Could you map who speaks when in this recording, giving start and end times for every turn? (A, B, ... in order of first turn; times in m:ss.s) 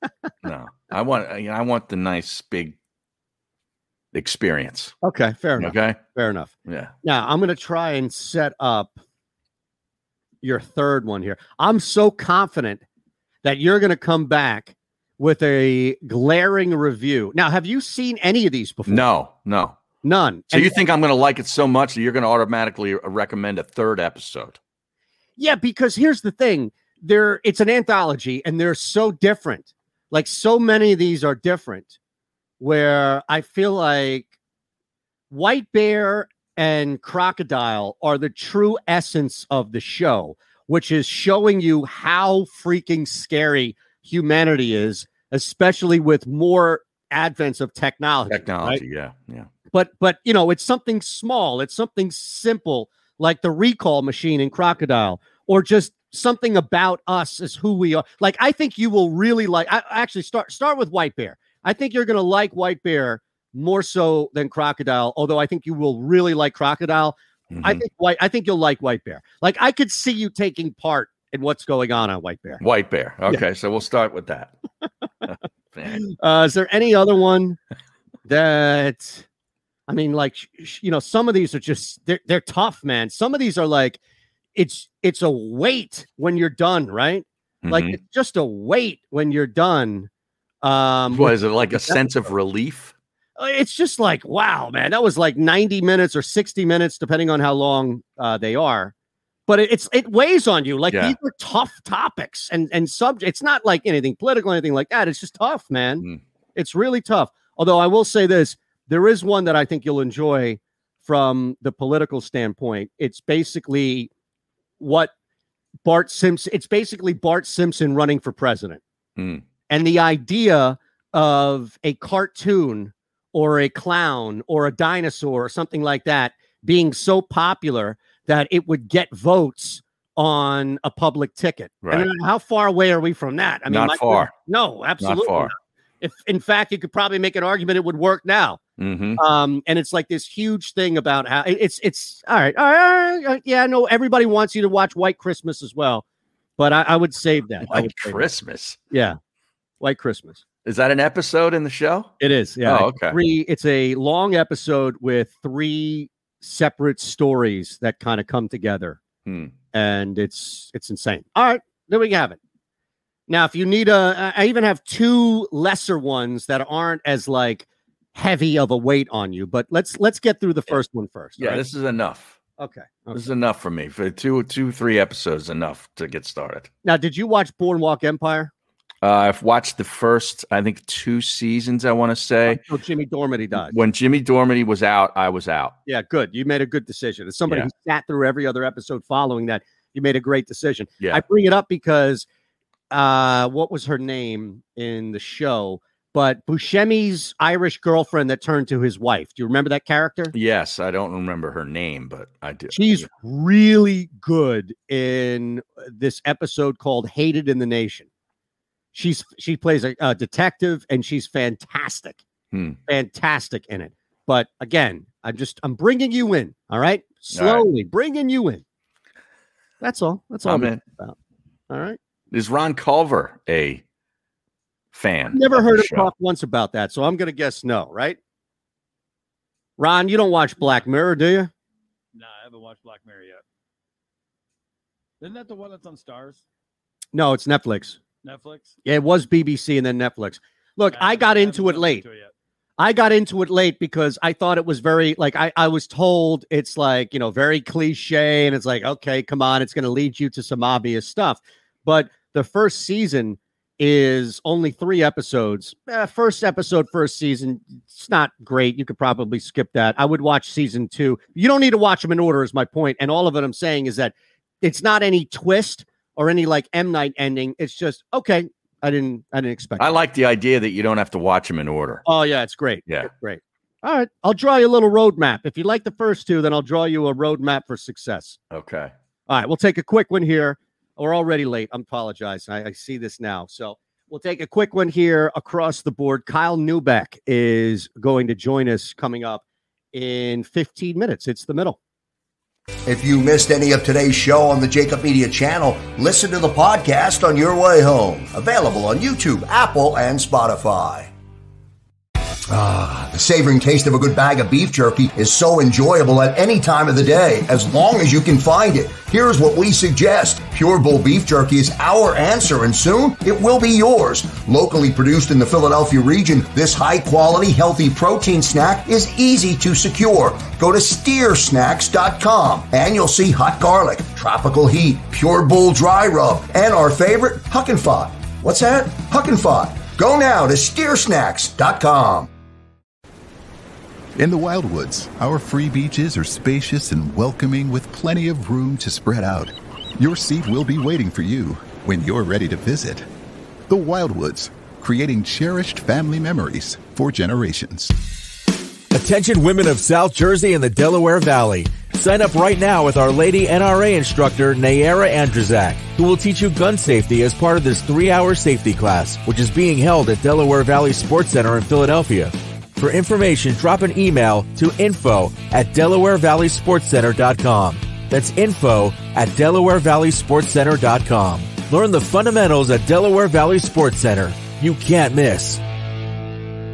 0:00.4-0:02.8 A
0:04.1-0:05.0 A
0:05.0-0:06.5 B
0:05.6-0:06.0 A
0:06.7-0:06.9 A
0:07.0-0:08.9 B
0:10.4-0:12.8 B
0:13.4-0:19.0 B
0:18.9-0:19.8 A
0:20.0-0:20.8 B
0:20.5-0:24.6 A
0:25.4-0:32.0 B
0:32.6-0:34.3 B
0:35.3-0:48.8 B
0:48.3-0:49.5 A
0:49.7-1:12.6 B
1:07.5-1:07.8 A
1:12.6-1:14.5 A
1:15.2-1:16.1 A
1:15.9-1:17.6 B
1:18.3-1:19.3 B
1:19.9-1:24.0 B
1:24.6-1:30.1 B
1:27.6-1:28.0 A
1:30.6-1:32.3 B
1:31.1-1:32.9 A
1:33.4-1:38.9 B
1:39.5-1:54.1 B
1:40.9-1:41.2 A
1:54.8-1:55.1 B
1:55.8-1:58.8 B
1:59.2-1:59.4 A
1:59.7-2:18.6 B
2:11.8-2:12.1 A
2:13.7-2:14.3 A
2:15.0-2:15.5 A
2:18.8-2:19.2 A
2:19.2-2:26.0 B
2:26.6-2:28.2 B
2:27.6-2:28.8 A
2:28.9-2:29.2 B
2:29.8-2:30.4 B
2:30.6-2:32.1 A
2:32.2-2:39.0 B
2:32.6-2:33.2 A
2:39.2-2:39.6 A
2:39.7-2:42.4 B
2:43.3-2:51.6 B
2:51.4-2:52.4 A
2:52.6-2:53.3 B
2:53.1-2:56.7 A
2:56.8-2:58.5 B
2:59.0-3:02.6 A
3:02.5-3:03.8 B
3:03.6-3:05.8 A
3:05.9-3:12.3 B
3:12.9-3:20.3 B
3:20.3-3:23.1 A
3:22.7-3:28.1 B
3:28.9-3:32.2 B
3:32.5-3:32.8 A
3:32.9-3:38.6 B
3:37.3-3:37.7 A
3:39.8-3:41.2 B
3:40.4-3:40.8 A
3:41.7-3:42.0 B
3:42.3-3:43.8 A
3:44.9-3:46.1 A
3:45.3-3:48.2 B
3:49.8-3:51.5 B
3:52.1-3:53.4 C
3:55.2-3:56.4 C
3:57.1-3:58.0 B
3:58.2-3:58.8 C
3:58.8-4:02.0 B
4:00.9-4:02.3 C
4:02.8-4:30.0 B
4:29.8-4:32.0 A
4:32.0-4:38.4 B
4:38.5-4:38.9 A
4:39.3-4:51.8 B
4:52.9-5:01.1 D
5:02.5-5:32.3 D
5:34.2-5:43.1 E
5:43.7-5:47.9 E
5:48.9-6:15.6 F